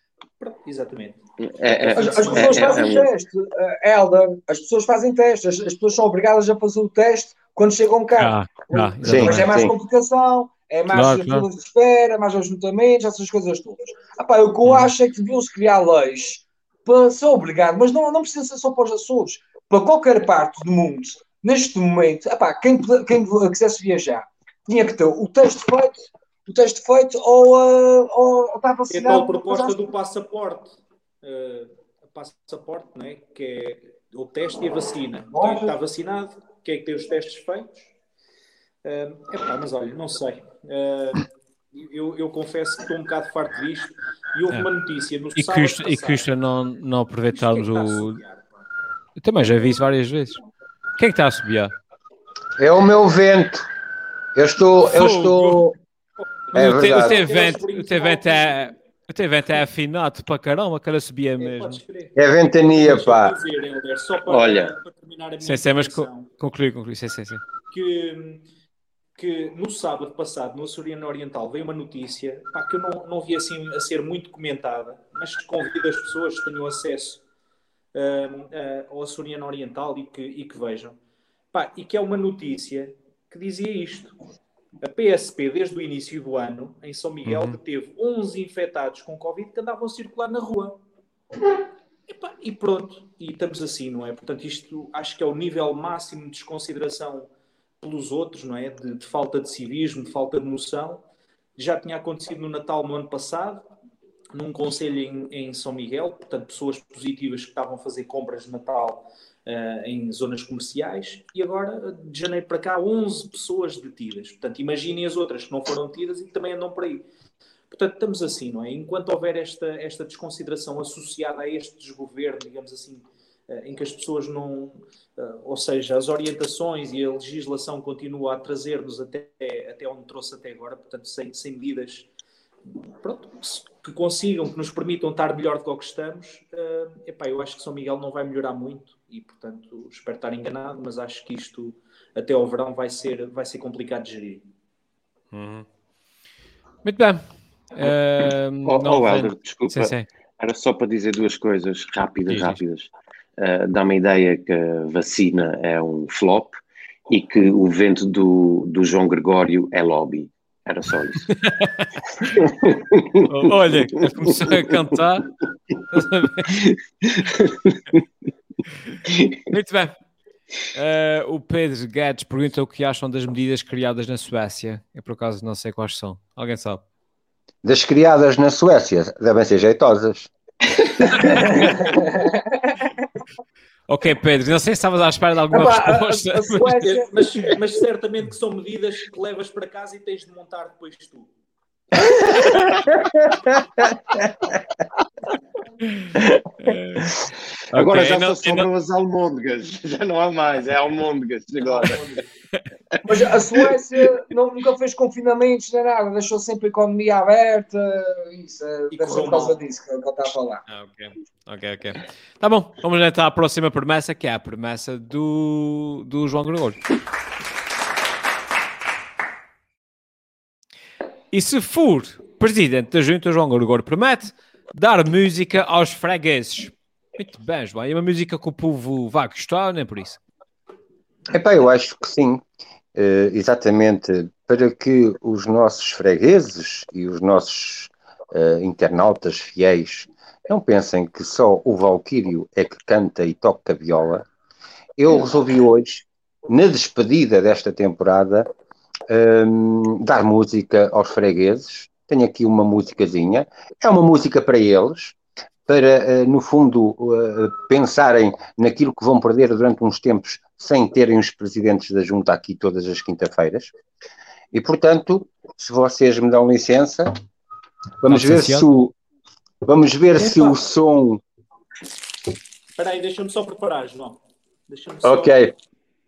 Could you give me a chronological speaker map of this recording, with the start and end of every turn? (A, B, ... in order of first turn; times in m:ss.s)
0:00.4-0:01.2 A
0:01.4-0:03.1 B
0:01.8-0:02.9 A
0:01.9-0:29.8 C
0:08.2-0:09.7 D
0:09.0-0:09.7 E
0:10.9-0:11.5 D
0:28.9-0:37.9 A
0:35.3-0:35.7 C
0:38.8-0:46.3 A
0:45.4-0:48.2 D
0:47.3-0:48.5 A
0:49.2-0:50.4 D
0:51.0-0:51.7 D
0:52.6-0:53.6 E
0:54.3-0:55.7 E
0:54.9-0:55.6 D
0:56.5-0:58.7 A
0:56.5-0:57.2 E
0:56.6-1:01.8 D
1:01.4-1:02.1 A
1:02.2-1:03.3 E
1:02.8-1:06.3 A
1:04.3-1:04.7 B
1:05.4-1:07.4 D
1:07.7-1:08.4 A
1:09.2-1:17.2 A
1:17.9-1:21.0 A
1:21.5-1:24.1 A
1:24.8-1:30.8 A
1:27.2-1:27.6 D
1:32.1-1:37.3 A
1:37.8-1:41.0 A
1:41.6-1:43.6 A
1:44.3-1:57.0 A
1:57.7-2:12.1 A
2:13.0-2:24.4 A
2:25.3-2:25.6 D
2:26.8-2:30.0 D
2:28.7-2:36.6 B
2:32.3-2:32.6 D
2:37.1-2:41.3 B
2:41.3-2:41.9 D
2:42.2-2:44.0 B
2:43.3-2:45.3 D
2:45.9-2:46.7 D
2:46.6-2:47.8 B
2:49.1-2:49.4 B
2:49.5-2:49.9 D
2:50.7-2:56.8 D
2:57.6-3:00.3 E
3:01.0-3:01.5 E
3:01.5-3:02.8 C
3:03.9-3:06.8 D
3:05.5-3:07.1 C
3:06.8-3:11.3 A
3:15.8-3:17.2 D
3:17.7-3:18.7 D
3:17.7-3:22.0 B
3:21.6-3:22.2 A
3:23.0-3:30.6 C
3:28.9-3:29.6 A
3:30.7-3:36.8 D
3:41.3-3:50.2 D
3:51.3-3:52.4 E
3:52.9-4:04.2 E
4:05.0-4:08.5 E
4:09.1-4:15.2 E
4:15.7-4:23.7 E
4:24.5-4:27.1 E
4:28.0-4:28.9 E
4:28.1-4:28.6 D
4:29.6-4:31.2 E
4:32.8-4:35.4 A
4:35.0-4:35.5 E